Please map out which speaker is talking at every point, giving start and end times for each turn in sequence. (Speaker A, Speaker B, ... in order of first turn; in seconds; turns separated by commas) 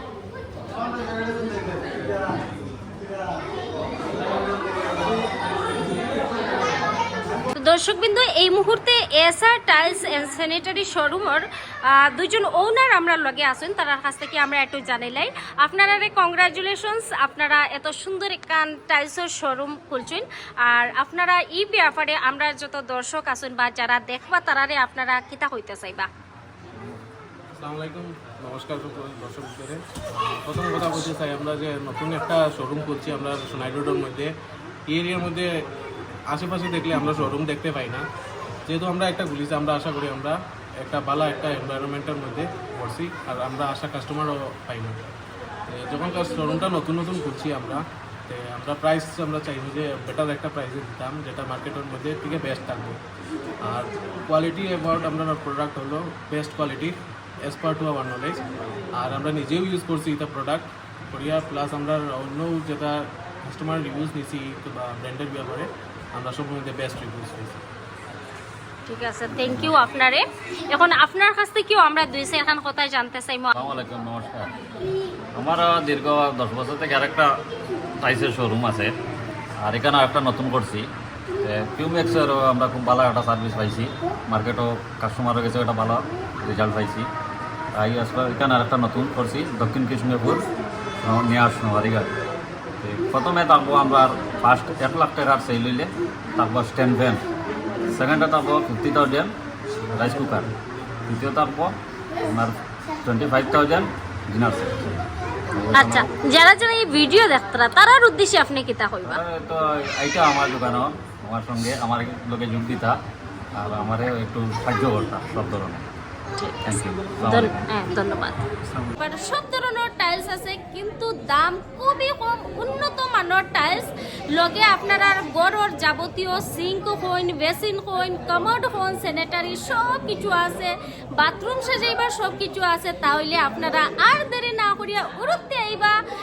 Speaker A: 7.5-26.1, Speaker B: 27.6-34.3, Speaker B: 34.9-35.6, Speaker B: 36.3-38.0, Speaker B: 38.7-45.0, Speaker B: 45.7-53.0, Speaker B: 53.6-67.6, Speaker A: 68.9-73.5, Speaker C: 73.5-74.5, Speaker C: 75.3-77.3, Speaker C: 78.0-78.9, Speaker C: 79.6-80.9, Speaker C: 81.4-87.1, Speaker C: 87.7-90.5, Speaker C: 91.0-92.1, Speaker C: 92.8-97.2, Speaker C: 97.9-99.3, Speaker C: 99.9-100.5, Speaker C: 101.1-106.1, Speaker A: 105.7-109.2, Speaker C: 109.0-113.0, Speaker C: 113.5-115.8, Speaker A: 116.4-118.4, Speaker C: 116.6-117.5, Speaker A: 119.0-135.9